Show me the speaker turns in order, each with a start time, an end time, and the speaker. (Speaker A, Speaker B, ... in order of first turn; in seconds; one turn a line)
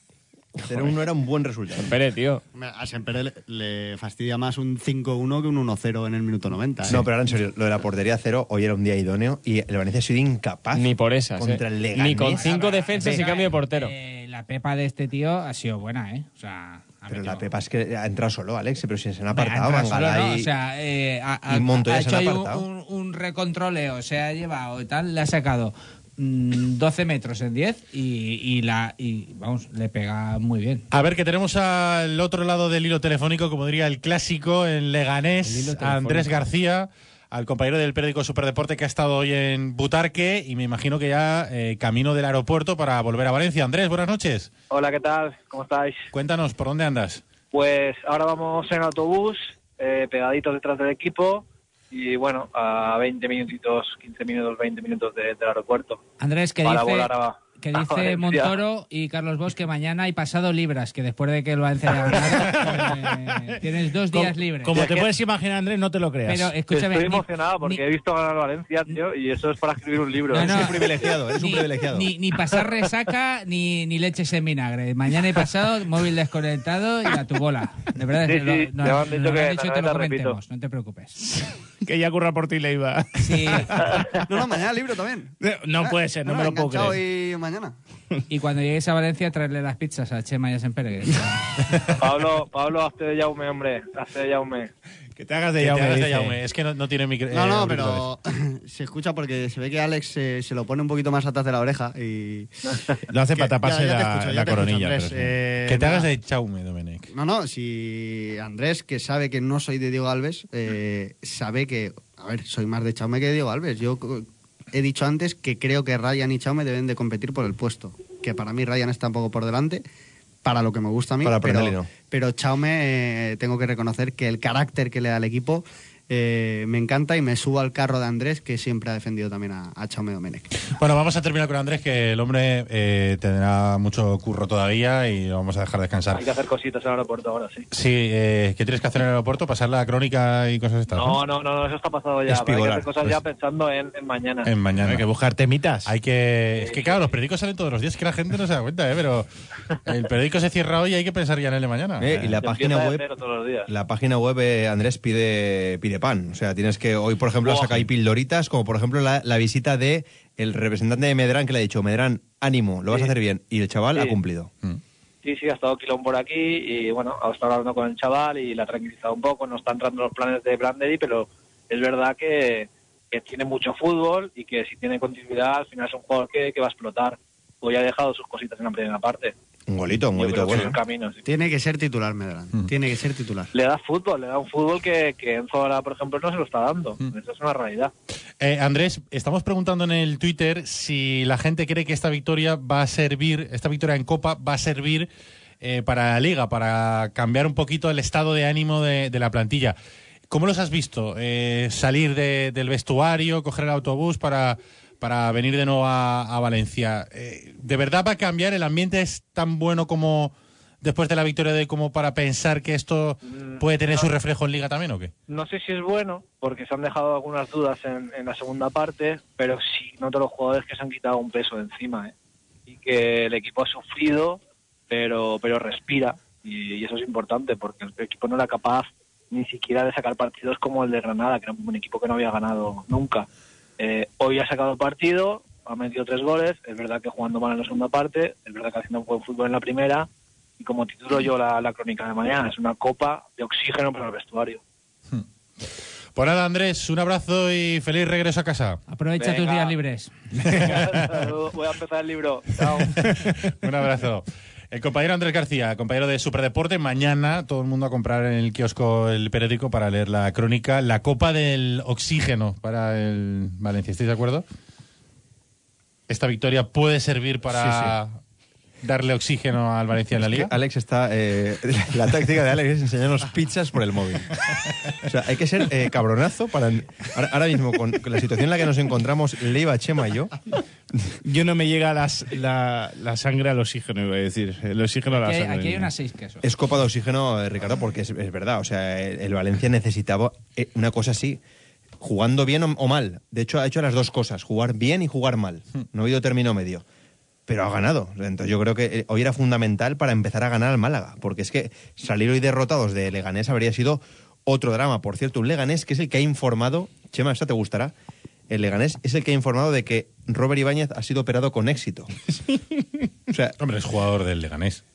Speaker A: 0.6-1.9
Speaker B: 1.9-2.4
Speaker C: 2.5-7.0
Speaker A: 6.9-13.3
Speaker B: 10.8-13.9
Speaker D: 12.3-17.5
Speaker A: 17.1-20.5
Speaker D: 19.3-30.9
Speaker A: 21.5-22.7
Speaker E: 30.9-44.5
Speaker B: 35.7-36.2
Speaker F: 44.7-46.1
Speaker E: 46.1-47.2
Speaker F: 47.5-56.0
Speaker D: 56.2-64.8
Speaker F: 56.6-58.6
Speaker G: 62.1-63.5
Speaker G: 64.1-66.5
Speaker F: 64.7-65.1
Speaker D: 66.3-67.8
Speaker F: 66.7-70.9
Speaker D: 70.3-81.2
Speaker A: 70.3-72.1
Speaker F: 78.2-80.4
Speaker G: 81.2-83.9
Speaker D: 83.2-84.0
Speaker C: 84.3-87.8
Speaker G: 85.4-87.0
Speaker D: 88.3-91.5
Speaker F: 92.0-94.7
Speaker G: 95.2-96.4
Speaker E: 95.6-98.0
Speaker C: 97.3-102.5
Speaker G: 103.1-105.3
Speaker C: 103.3-106.1
Speaker E: 105.7-107.1
Speaker C: 107.1-119.8
Speaker C: 120.5-130.5
Speaker A: 121.2-121.9
Speaker E: 130.7-136.3
Speaker F: 136.1-137.7
Speaker E: 137.7-141.2
Speaker F: 140.9-144.5
Speaker A: 142.3-142.9
Speaker E: 144.4-145.1
Speaker G: 144.8-145.9
Speaker E: 145.9-149.3
Speaker F: 146.6-147.1
Speaker E: 149.9-152.1
Speaker A: 152.0-153.1
Speaker G: 152.1-152.3
Speaker F: 152.4-153.7
Speaker A: 153.7-164.5
Speaker F: 157.5-157.8
Speaker F: 165.2-179.3
Speaker A: 179.7-180.8
Speaker F: 180.1-181.2
Speaker C: 181.2-183.5
Speaker F: 183.5-187.9
Speaker E: 188.4-195.1
Speaker E: 195.6-199.8
Speaker E: 200.3-215.1
Speaker F: 213.3-214.1
Speaker F: 215.3-222.1
Speaker F: 222.7-233.3
Speaker F: 233.8-240.1
Speaker F: 240.6-244.6
Speaker E: 246.2-248.8
Speaker D: 248.9-250.1
Speaker F: 249.2-249.8
Speaker F: 250.5-253.0
Speaker E: 250.5-251.2
Speaker E: 253.0-264.4
Speaker E: 266.1-268.2
Speaker G: 267.6-267.9
Speaker E: 268.8-270.5
Speaker A: 270.2-274.4
Speaker A: 275.0-280.4
Speaker G: 281.2-285.9
Speaker D: 285.2-286.4
Speaker A: 286.4-291.4
Speaker A: 292.0-296.8
Speaker A: 297.5-307.9
Speaker A: 308.5-312.1
Speaker A: 313.3-313.6
Speaker E: 313.6-314.8